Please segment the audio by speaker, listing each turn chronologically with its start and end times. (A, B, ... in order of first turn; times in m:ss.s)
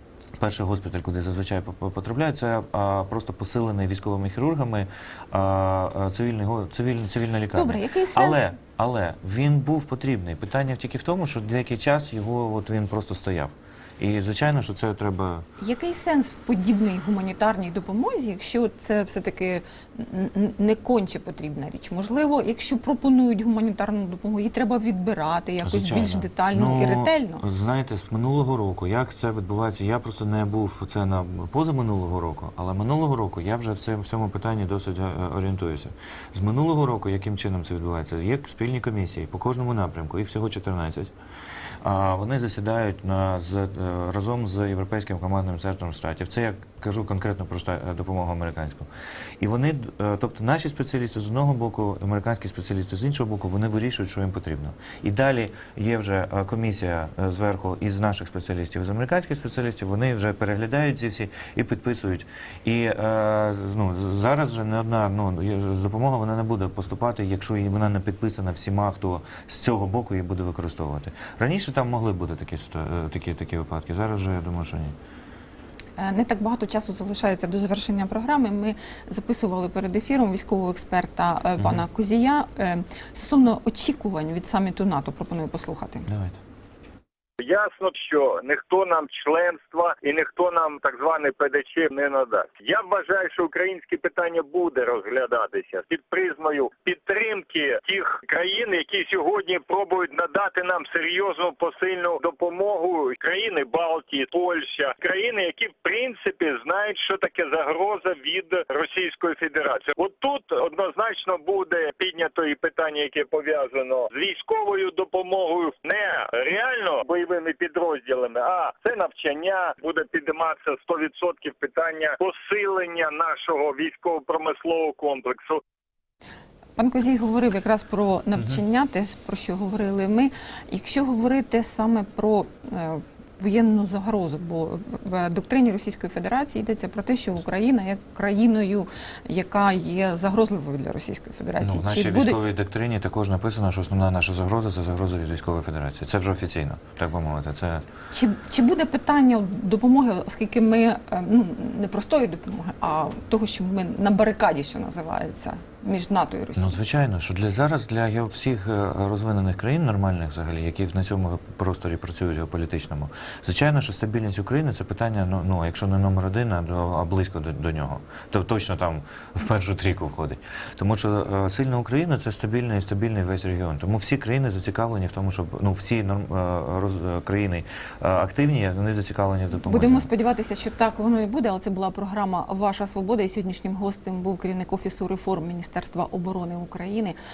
0:00.4-0:15.5 A
0:07.5-0:08.5 B
0:15.6-0:27.4 B
0:25.6-0:41.1 A
0:41.8-0:48.9 A
0:49.4-1:14.9 A
1:16.0-1:26.1 B
1:21.6-1:21.8 A
1:26.1-1:26.4 A
1:27.4-2:05.6 C
2:06.8-2:22.4 B
2:21.6-2:27.8 A
2:28.1-2:36.8 B
2:36.6-3:00.1 A
2:59.6-3:07.2 B